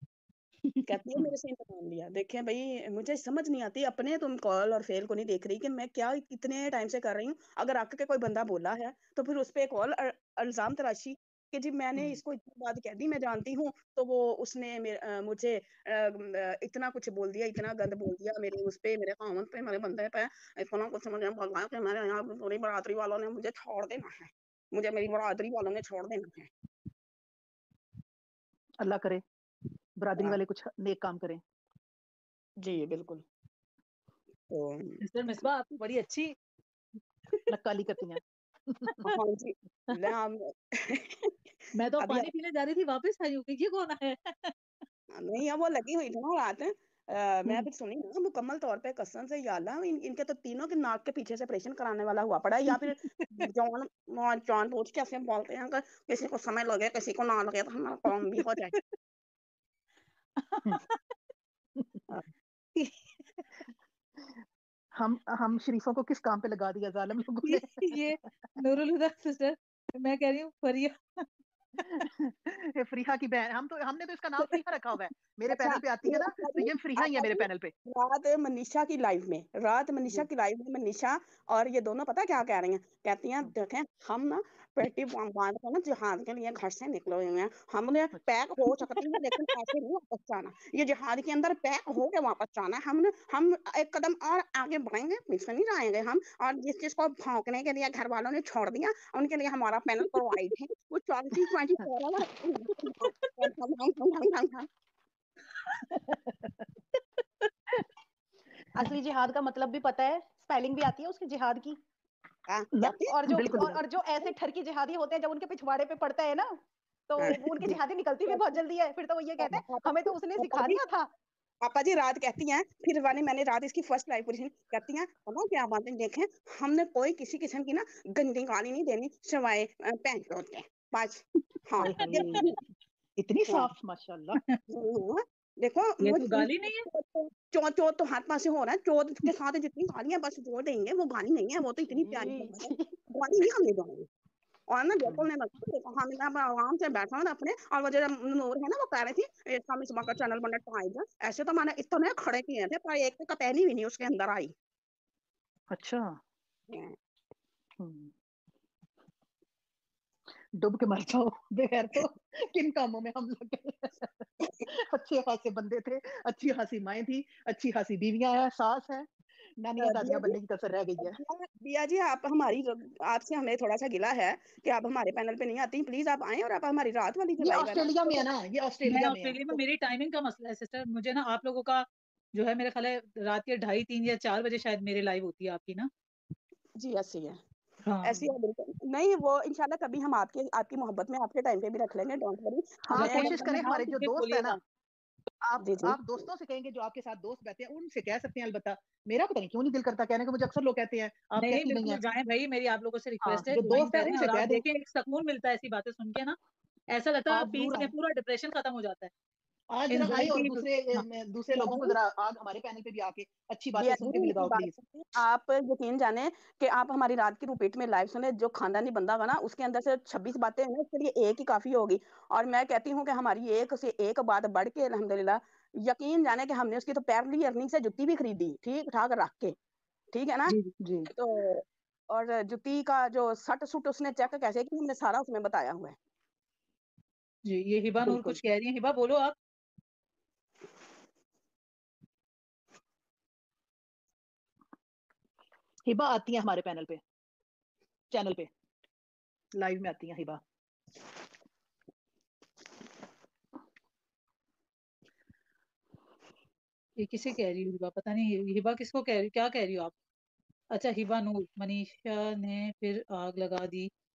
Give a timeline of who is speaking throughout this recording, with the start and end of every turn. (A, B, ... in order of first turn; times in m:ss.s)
0:00.9-0:26.5 A
0:28.8-0:29.2 B
0:30.0-0:31.4 B
0:32.6-0:33.2 A
0:34.5-0:35.0 A
0:35.0-0:36.3 C
0:37.5-0:39.0 B
0:39.0-0:41.3 A
0:41.8-0:44.5 C
0:42.0-0:42.3 A
0:45.2-0:58.8 A
1:00.4-1:00.8 C
1:05.0-1:08.1 B
1:07.4-1:11.2 C
1:11.8-1:17.7 B
1:15.5-1:44.7 A
1:28.1-1:28.9 B
1:45.9-1:46.7 B
1:48.8-1:51.8 D
1:52.5-1:53.1 A
1:52.7-1:53.8 B
1:53.1-2:01.1 D
1:57.2-1:57.6 A
1:58.3-1:58.6 A
1:59.4-2:00.8 A
2:01.6-2:12.6 A
2:11.8-2:12.6 B
2:13.2-2:14.4 B
2:14.7-2:24.1 A
2:16.0-2:16.9 C
2:22.0-2:22.6 B
2:24.7-2:34.5 A
2:35.7-2:36.2 B
2:36.7-2:37.0 A
2:37.8-2:38.1 B
2:40.5-2:49.1 B
2:49.6-2:51.2 B
2:49.8-2:50.4 A
2:51.0-2:58.2 A
2:57.4-2:59.6 B
2:58.9-3:05.9 C
3:06.8-3:07.4 A
3:07.9-3:08.3 C
3:08.0-3:13.6 A
3:12.9-3:14.6 B
3:13.0-3:14.6 C
3:15.4-3:22.1 B
3:15.6-3:16.3 A
3:21.4-3:26.4 C
3:23.2-3:24.6 B
3:26.9-3:29.1 C
3:27.3-3:27.9 B
3:29.7-3:34.8 B
3:29.9-3:31.0 C
3:31.6-3:31.9 A
3:33.8-3:49.6 A
3:50.1-3:50.6 A
3:50.8-3:51.1 B
3:51.1-3:56.0 A
3:57.5-3:59.4 C
3:58.0-3:58.4 B
4:05.9-4:07.0 B
4:08.1-4:08.5 B
4:09.6-4:10.4 B
4:17.0-4:19.9 C
4:20.7-4:23.9 C